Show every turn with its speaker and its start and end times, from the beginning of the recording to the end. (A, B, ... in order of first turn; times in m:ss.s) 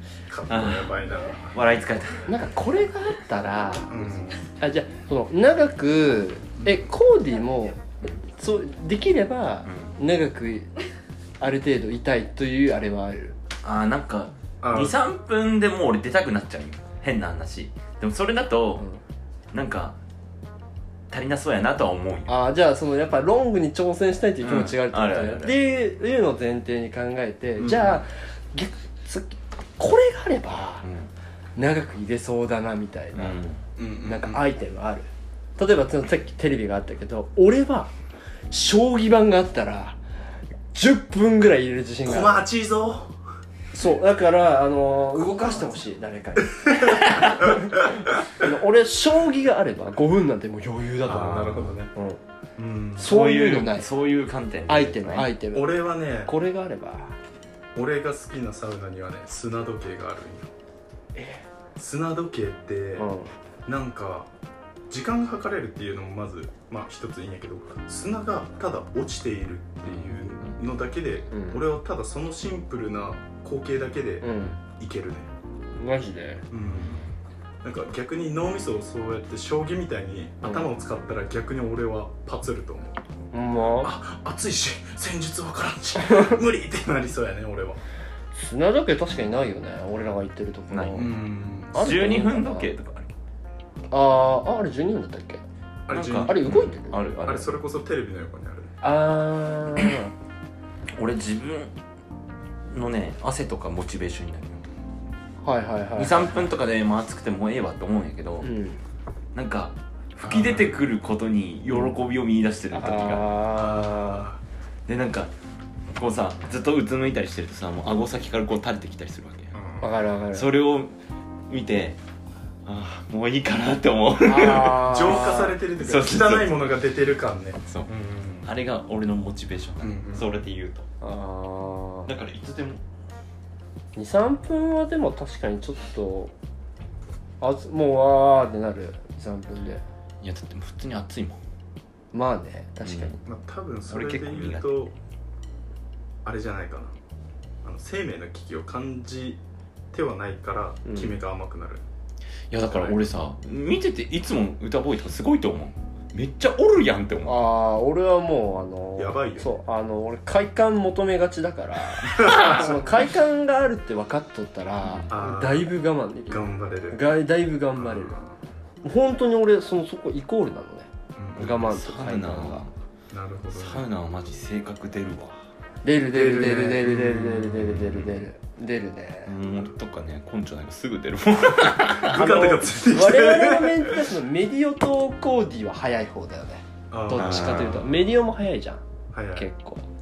0:00.3-0:01.6 A
0:00.5-0:02.3 B
0:02.3-0:10.7 C
0:03.9-0:04.4 A
0:06.6-0:06.9 A
0:09.6-0:10.0 B
0:11.4-0:13.4 C
0:13.6-0:18.9 B
0:14.6-0:15.0 A
0:19.5-0:20.0 B
0:21.1-0:22.3 B
0:22.3-0:30.9 C
0:24.4-0:25.6 B
0:27.6-0:28.0 A
0:30.8-0:31.1 B
0:31.6-0:33.4 C
0:33.1-0:33.6 B
0:33.8-0:34.4 A
0:34.0-0:37.9 C
0:38.5-0:40.0 C
0:40.7-0:42.4 C
0:42.0-0:43.2 A
0:43.7-0:52.2 C
0:51.0-0:51.9 A
0:51.1-0:51.7 B
0:52.6-0:53.1 A
0:53.0-0:53.9 C
0:53.0-0:55.3 B
0:54.7-0:57.2 C
0:55.5-0:56.3 A
0:57.8-1:00.5 A
1:01.2-1:01.4 C
1:01.8-1:03.1 A
1:03.0-1:03.3 C
1:03.7-1:04.3 A
1:04.9-1:15.3 A
1:09.9-1:10.6 B
1:11.3-1:11.6 C
1:14.2-1:14.6 C
1:15.8-1:16.4 C
1:16.5-1:17.1 A
1:17.6-1:23.0 A
1:20.4-1:20.7 C
1:23.3-1:23.9 C
1:23.8-1:27.8 A
1:26.1-1:26.4 C
1:28.3-1:31.2 C
1:30.7-1:31.2 B
1:30.9-1:32.0 A
1:31.7-1:32.7 C
1:31.7-1:33.1 B
1:33.9-1:35.4 C
1:35.9-1:36.5 A
1:35.9-1:37.6 B
1:36.2-1:37.1 C
1:37.2-1:38.7 A
1:38.8-1:40.1 C
1:41.0-1:41.7 B
1:42.7-1:44.6 B
1:45.4-1:46.3 C
1:46.0-1:48.5 B
1:48.4-1:48.8 C
1:49.4-1:53.3 B
1:50.2-1:50.8 A
1:52.7-1:54.3 C
1:53.5-1:54.4 A
1:54.9-1:55.3 B
1:55.9-1:59.6 B
1:59.5-1:59.9 A
1:59.8-2:00.5 C
2:00.3-2:00.9 B
2:01.5-2:02.0 B
2:02.7-2:06.5 B
2:04.2-2:05.6 C
2:04.8-2:08.5 A
2:08.4-2:10.9 B
2:09.8-2:10.3 A
2:11.0-2:12.1 C
2:12.1-2:12.8 B
2:14.0-2:16.3 C
2:17.4-2:19.8 C
2:20.2-2:21.4 B
2:22.1-2:23.2 C
2:22.8-2:23.2 B
2:23.2-2:24.9 A
2:23.9-2:24.9 B
2:26.2-2:27.0 A
2:27.6-2:29.4 A
2:29.9-2:31.8 A
2:30.8-2:31.2 C
2:32.5-2:37.4 B
2:32.6-2:33.0 A
2:37.2-2:48.2 C
2:39.0-2:39.5 A
2:42.1-2:42.7 A
2:44.8-2:45.1 B
2:45.1-2:45.7 A
2:46.3-2:47.0 A
2:47.8-2:48.4 A
2:48.8-2:52.7 C
2:51.2-2:51.7 A
2:51.5-2:52.7 B
2:53.1-2:53.9 A
2:53.5-2:55.4 B
2:55.8-2:59.3 C
2:56.1-2:57.7 A
2:57.6-2:58.2 B
2:59.3-3:02.3 B
3:01.8-3:04.0 A
3:02.1-3:08.8 C
3:06.9-3:08.1 A
3:07.2-3:07.9 B
3:09.1-3:09.5 A
3:09.4-3:09.9 C